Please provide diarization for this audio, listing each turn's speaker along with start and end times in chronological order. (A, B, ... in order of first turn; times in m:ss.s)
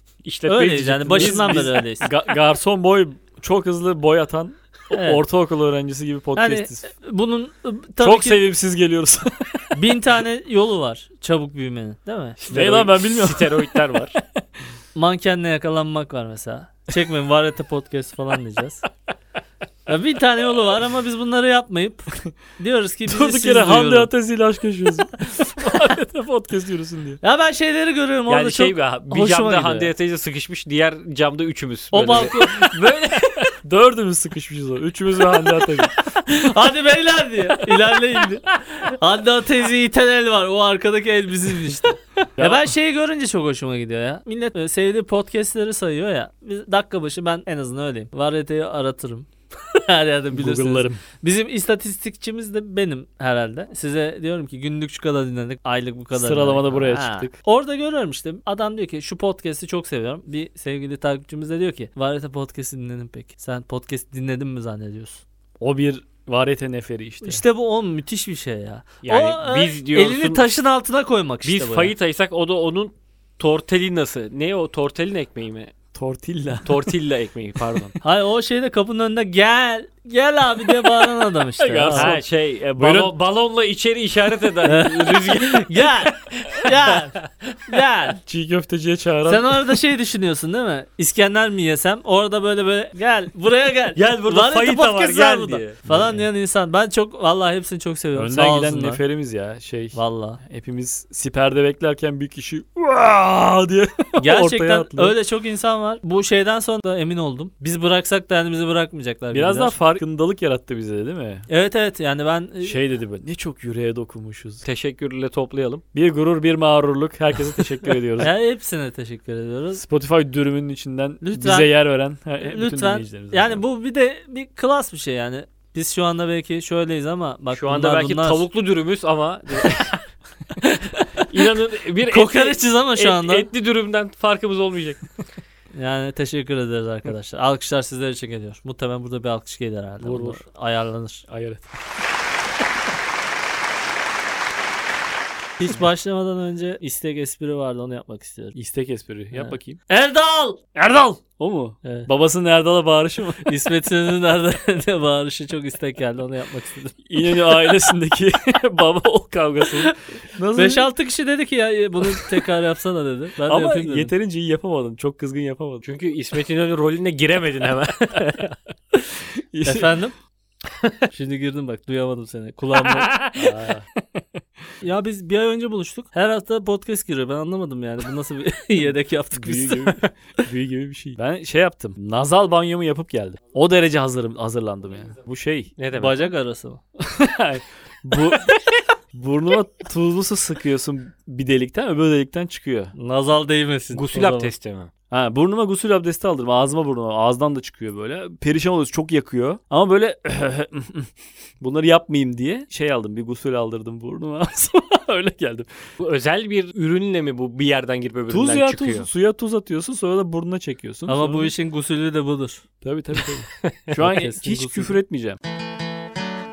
0:00.2-0:01.7 A
0:00.5-0:02.1 B
0:01.1-0:06.9 C
0:04.9-0:05.2 B
0:06.4-0:08.4 B
0:08.0-0:09.8 C
0:09.7-0:12.4 B
0:12.4-0:14.2 A
0:12.5-0:13.7 C
0:15.0-0:18.8 B
0:19.9-0:24.1 B
0:23.1-0:27.2 C
0:27.2-0:29.9 B
0:28.3-0:33.5 A
0:31.9-0:32.6 B
0:32.1-0:32.7 C
0:33.4-0:35.9 C
0:35.3-0:35.9 A
0:36.2-1:05.2 B
0:42.4-0:42.7 C
0:50.3-0:51.0 C
0:56.1-0:57.4 C
1:05.6-1:07.4 C
1:07.2-1:11.9 B
1:09.0-1:10.5 A
1:11.4-1:15.7 A
1:15.9-1:16.9 C
1:16.6-1:18.0 A
1:18.0-1:22.1 B
1:21.6-1:22.2 C
1:21.9-1:27.8 A
1:22.8-1:23.1 C
1:24.6-1:27.2 B
1:27.7-1:28.2 B
1:28.2-1:29.8 C
1:29.3-1:39.0 B
1:34.0-1:35.8 A
1:35.9-1:36.2 C
1:38.2-1:45.2 C
1:40.0-1:40.4 B
1:44.2-1:49.8 B
1:49.3-1:51.5 C
1:51.5-1:52.8 B
1:52.6-1:54.6 C
1:54.6-1:55.8 A
1:55.9-1:58.3 C
1:58.2-1:59.8 B
1:59.8-2:03.6 C
2:01.2-2:01.7 B
2:02.4-2:08.4 B
2:07.5-2:10.0 A
2:11.0-2:11.3 B
2:11.2-2:15.1 A
2:12.1-2:13.5 B
2:15.7-2:21.2 B
2:20.0-2:20.4 C
2:21.3-2:21.7 C
2:25.6-2:28.6 B
2:28.5-2:29.8 C
2:29.3-2:30.6 B
2:30.7-2:33.5 C
2:31.8-2:32.1 B
2:33.4-2:37.4 B
2:37.1-2:40.9 C
2:39.7-2:40.0 B
2:40.5-2:44.1 B
2:42.1-2:42.3 C
2:43.4-2:45.9 C
2:45.8-2:48.6 A
2:49.4-2:50.0 C
2:49.6-2:50.1 B
2:51.1-2:53.1 B
2:52.8-2:53.5 A
2:53.4-2:53.9 C
2:54.8-3:00.0 B
2:59.3-3:05.8 C
3:05.8-3:06.3 A
3:05.9-3:06.8 B
3:07.0-3:08.6 C
3:09.1-3:12.9 C
3:13.0-3:14.5 B
3:13.9-3:14.9 A
3:15.1-3:25.7 C
3:26.0-3:29.1 A
3:28.3-3:31.5 C
3:31.1-3:32.6 B
3:32.8-3:35.4 C
3:34.0-3:35.0 B